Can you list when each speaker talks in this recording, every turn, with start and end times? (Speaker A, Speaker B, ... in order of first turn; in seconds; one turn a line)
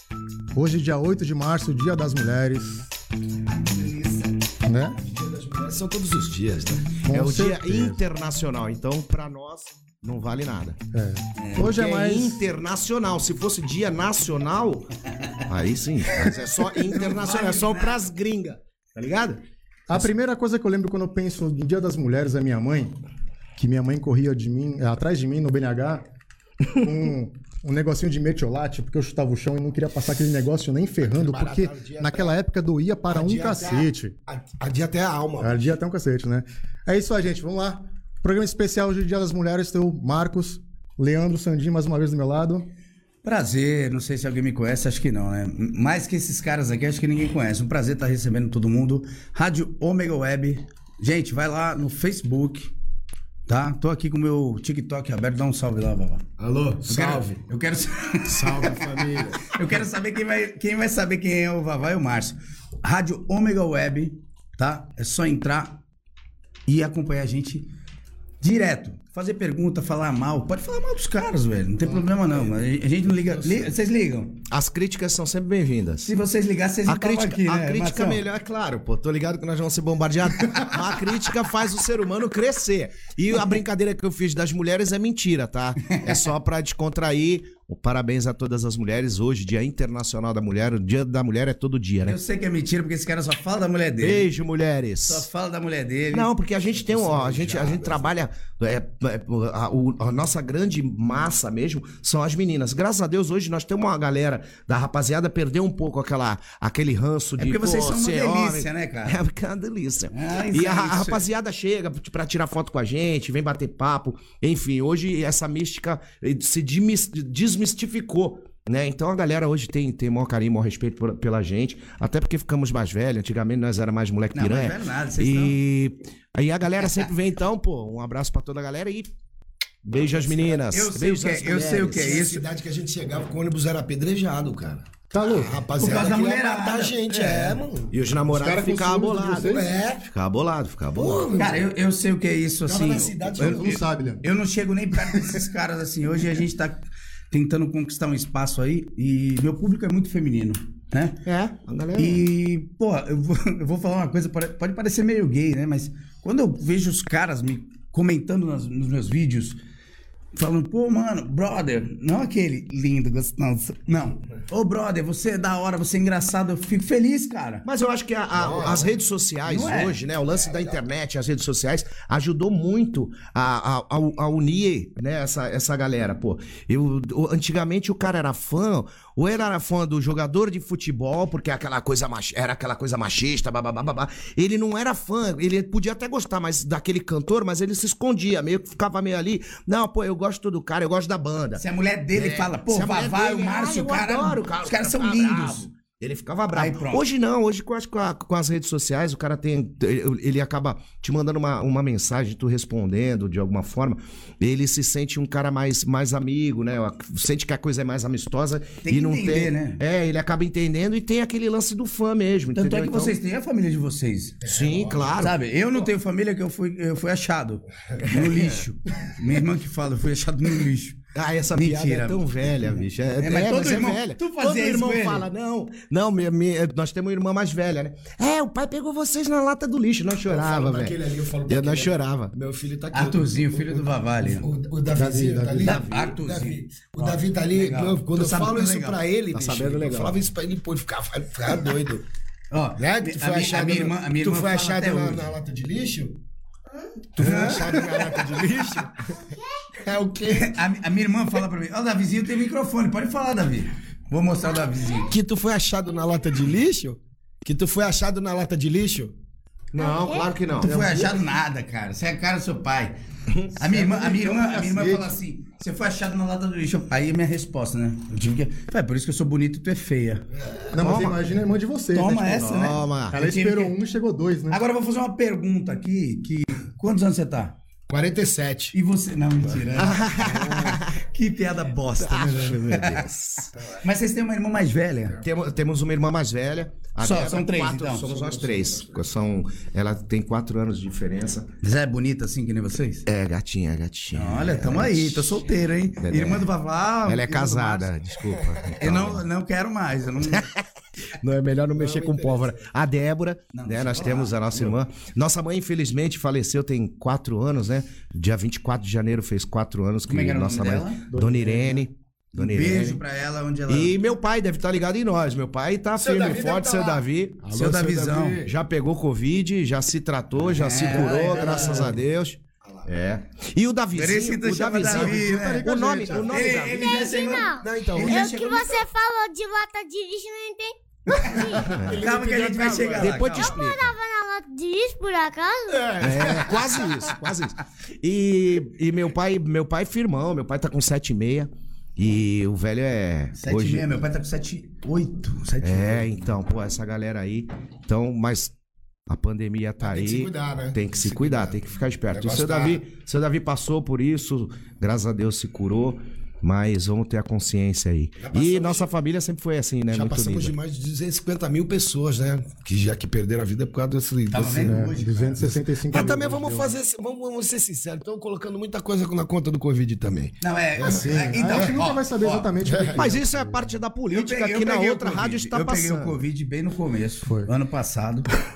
Speaker A: 0.5-2.8
Speaker B: 3.7-4.2
Speaker A: 4.7-5.0
Speaker C: 5.0-7.0
Speaker A: 7.0-8.0
Speaker D: 7.1-10.8
Speaker A: 10.9-12.4
Speaker B: 11.4-11.7
Speaker D: 11.6-19.4
Speaker B: 16.9-18.0
Speaker A: 19.9-22.9
Speaker A: 23.6-26.0
Speaker A: 26.7-34.1
Speaker C: 31.0-32.3
Speaker C: 33.1-35.6
Speaker A: 35.4-42.7
Speaker B: 43.2-52.7
Speaker B: 53.5-58.8
Speaker C: 56.4-57.4
Speaker C: 58.4-59.3
Speaker A: 58.9-59.3
Speaker B: 59.5-65.8
Speaker B: 66.7-67.7
Speaker B: 68.4-74.4
Speaker C: 73.3-73.6
Speaker D: 74.5-76.1
Speaker B: 76.0-78.2
Speaker D: 76.9-92.2
Speaker B: 85.9-86.2
Speaker B: 92.0-94.3
Speaker D: 94.0-95.2
Speaker B: 95.0-98.0
Speaker D: 96.1-129.1
Speaker B: 107.4-109.2
Speaker B: 110.1-111.2
Speaker B: 124.3-125.6
Speaker D: 129.8-132.2
Speaker B: 130.7-132.4
Speaker C: 132.0-138.0
Speaker A: 135.1-135.6
Speaker B: 135.8-137.6
Speaker D: 137.9-141.3
Speaker A: 138.3-139.7
Speaker C: 139.4-140.1
Speaker C: 140.9-141.7
Speaker B: 141.3-146.8
Speaker C: 142.7-143.8
Speaker A: 143.4-144.2
Speaker B: 147.3-151.2
Speaker D: 151.2-152.2
Speaker B: 152.0-159.6
Speaker B: 160.3-167.6
Speaker D: 167.7-213.2
Speaker C: 168.3-168.9
Speaker B: 169.4-170.0
Speaker B: 191.6-195.7
Speaker B: 196.5-197.0
Speaker B: 208.8-209.8
Speaker B: 212.5-214.4
Speaker C: 214.4-215.3
Speaker D: 214.4-215.4
Speaker B: 215.2-221.0
Speaker D: 218.1-218.5
Speaker D: 221.2-231.0
Speaker B: 221.5-222.2
Speaker B: 223.2-225.3
Speaker C: 230.3-242.0
Speaker D: 231.5-232.3
Speaker B: 232.9-234.5
Speaker A: 234.9-235.8
Speaker B: 235.6-239.0
Speaker D: 239.3-240.2
Speaker B: 242.5-245.3
Speaker C: 242.8-246.2
Speaker C: 247.2-249.2
Speaker D: 247.2-248.7
Speaker B: 247.2-248.0
Speaker C: 249.8-250.5
Speaker B: 250.3-255.1
Speaker C: 255.1-259.1
Speaker D: 259.7-260.8
Speaker E: 259.8-260.3
Speaker B: 260.6-263.0
Speaker A: 260.6-261.1
Speaker B: 263.6-270.2
Speaker A: 263.7-265.1
Speaker D: 270.6-271.2
Speaker A: 270.7-272.6
Speaker B: 271.9-273.8
Speaker D: 272.4-273.2
Speaker A: 273.1-274.6
Speaker B: 274.5-277.5
Speaker C: 277.9-278.7
Speaker B: 278.7-283.1
Speaker D: 279.7-281.0
Speaker A: 280.2-280.6
Speaker D: 282.0-283.5
Speaker B: 283.6-285.2
Speaker D: 285.2-291.5
Speaker B: 287.0-288.1
Speaker B: 291.6-293.0
Speaker D: 293.1-295.4
Speaker B: 294.1-297.9
Speaker D: 296.0-296.5
Speaker D: 297.1-299.2
Speaker C: 298.4-298.9
Speaker B: 298.8-300.5
Speaker D: 300.3-300.6
Speaker D: 301.2-313.0
Speaker C: 301.8-302.7
Speaker B: 303.5-304.8
Speaker B: 310.1-311.0
Speaker A: 311.1-311.8
Speaker B: 312.4-313.9
Speaker D: 313.7-328.6
Speaker C: 316.0-316.9
Speaker B: 317.5-318.5
Speaker C: 317.9-318.4
Speaker B: 320.5-322.0
Speaker B: 323.9-328.8
Speaker A: 324.9-326.5
Speaker E: 326.6-330.8
Speaker B: 331.1-333.6
Speaker D: 331.5-332.1
Speaker C: 331.5-333.2
Speaker D: 332.6-333.9
Speaker E: 333.2-336.1
Speaker D: 336.0-343.9
Speaker B: 336.1-337.0
Speaker B: 343.4-346.3
Speaker D: 345.6-348.5
Speaker D: 349.1-360.5
Speaker C: 349.8-351.6
Speaker C: 352.1-352.8
Speaker C: 358.2-358.9
Speaker C: 359.9-371.8
Speaker B: 364.3-366.0
Speaker A: 364.5-366.8
Speaker B: 370.4-372.5
Speaker A: 370.8-373.7
Speaker C: 372.6-373.1
Speaker D: 372.9-376.1
Speaker B: 374.1-378.3